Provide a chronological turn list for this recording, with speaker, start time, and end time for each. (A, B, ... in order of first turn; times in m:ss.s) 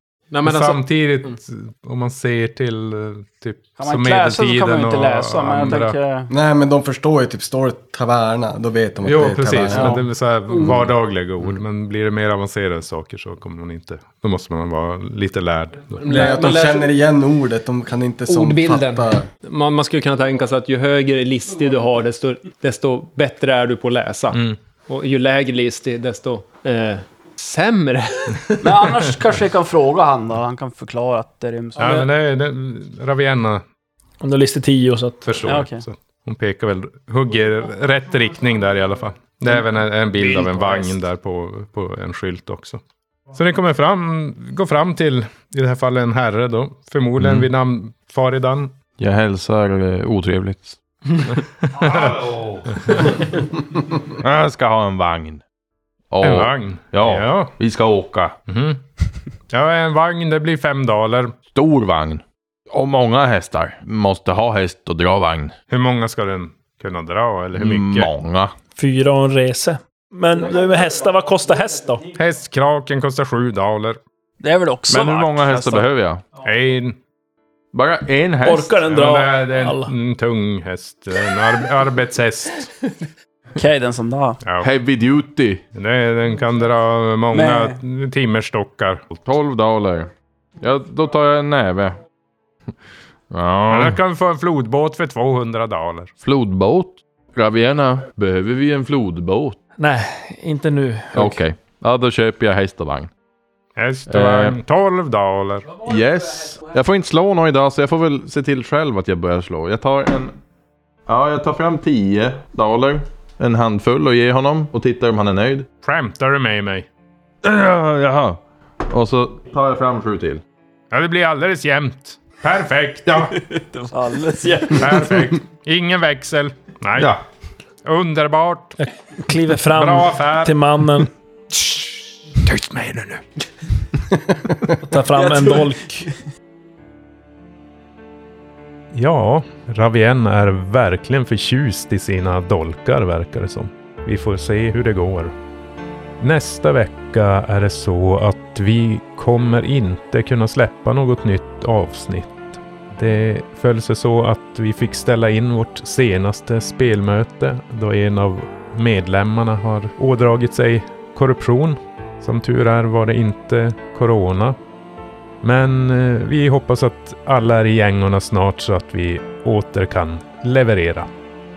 0:00.3-0:01.3 A
0:00.4-0:06.0 B
0:03.8-0:06.3 C
0:06.3-0:10.0 D
0:09.0-0:16.0 B
0:10.5-0:10.8 A
0:16.0-0:16.9 A
0:16.0-0:19.3 D
0:18.3-0:28.6 A
0:24.3-0:24.6 B
0:28.6-0:32.1 C
0:31.8-0:33.6 B
0:34.2-0:35.3 E
0:35.2-0:42.8 B
0:35.4-0:35.8 C
0:40.2-0:41.0 A
0:43.3-0:48.8 B
0:47.2-0:47.5 F
0:49.0-0:50.8 F
0:51.3-0:53.1 B
0:51.8-0:52.6 F
0:54.2-0:55.4 F
0:56.1-0:58.4 F
0:56.2-0:57.6 B
0:58.5-0:58.8 B
0:59.5-1:01.4 B
1:01.5-1:05.5 F
1:05.7-1:08.1 B
1:07.6-1:08.5 F
1:08.8-1:12.1 E
1:12.2-1:14.0 B
1:14.4-1:15.8 C
1:14.9-1:16.3 F
1:16.4-1:17.0 B
1:17.7-1:18.7 F
1:18.4-1:19.9 E
1:18.8-1:22.7 B
1:23.6-1:24.4 C
1:24.4-1:24.7 B
1:24.6-1:25.6 F
1:25.7-1:29.2 B
1:27.3-1:27.8 C
1:29.2-1:32.0 F
1:33.3-1:34.0 F
1:33.7-1:36.1 B
1:36.2-1:39.6 F
1:39.8-1:41.4 E
1:41.1-1:43.1 F
1:43.8-1:45.8 B
1:44.1-1:44.6 F
1:45.8-1:50.4 F
1:51.1-1:55.7 F
1:55.8-1:56.9 B
1:57.4-2:00.4 F
2:00.9-2:03.4 B
2:03.9-2:05.0 E
2:04.0-2:05.1 C
2:04.8-2:07.1 B
2:07.0-2:07.2 F
2:07.8-2:08.8 B
2:08.8-2:11.1 E
2:09.7-2:10.6 B
2:11.5-2:13.2 B
2:14.8-2:16.1 E
2:15.3-2:15.7 C
2:18.9-2:25.3 B
2:26.2-2:44.6 B
2:45.4-2:51.1 B